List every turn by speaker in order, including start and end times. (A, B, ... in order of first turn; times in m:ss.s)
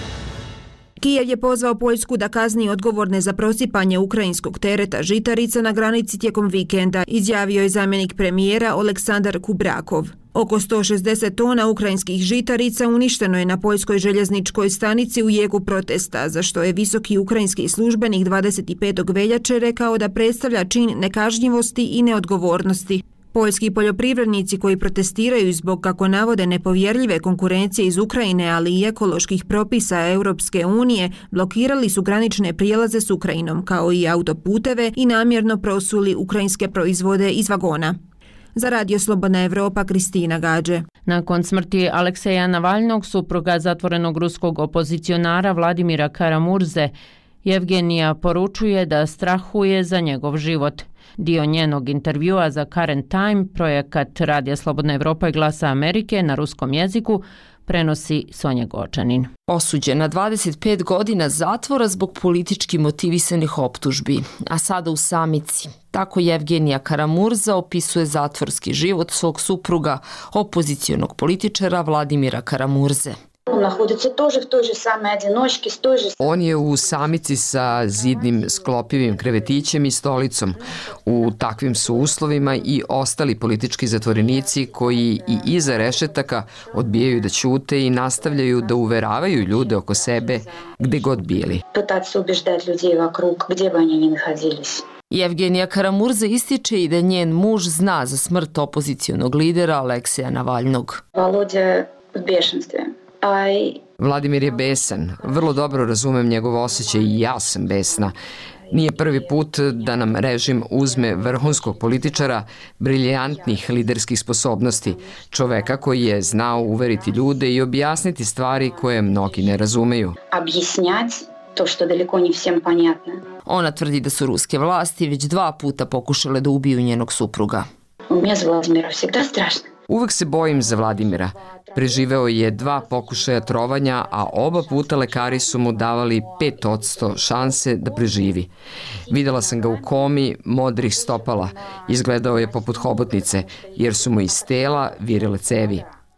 0:01.0-0:38.0 A
0:38.5-0:40.8 A
0:41.1-0:46.9 B
0:47.4-0:59.3 B
0:59.5-1:13.2 C
1:13.5-1:16.2 D
1:16.2-1:31.6 E
1:31.7-1:34.9 D
1:35.1-1:41.0 C
1:41.1-1:43.8 D
1:44.0-1:48.2 E
1:48.7-2:00.2 E
2:00.3-2:03.2 D
2:03.4-2:07.7 C
2:08.1-2:09.7 D
2:09.9-2:18.5 E
2:19.1-2:25.8 E